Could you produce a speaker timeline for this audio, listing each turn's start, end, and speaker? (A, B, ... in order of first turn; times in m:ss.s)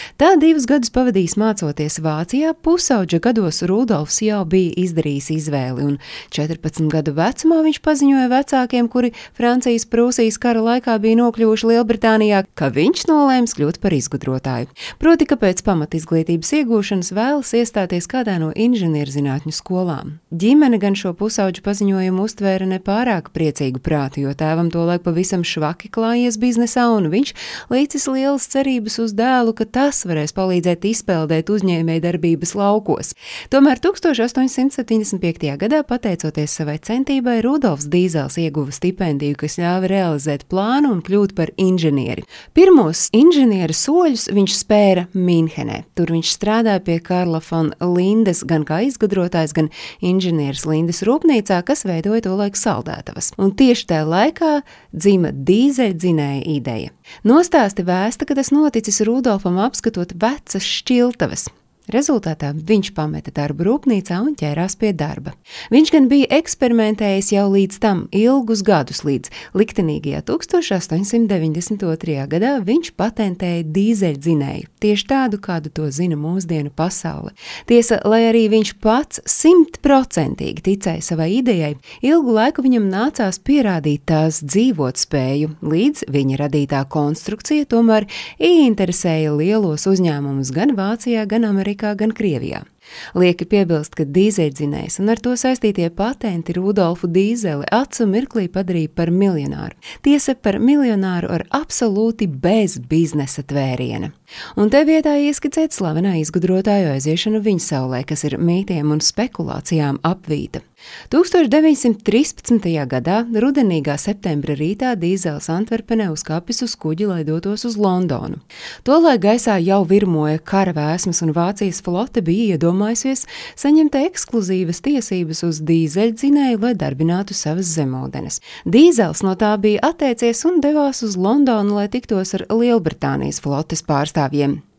0:00.2-2:14.6 A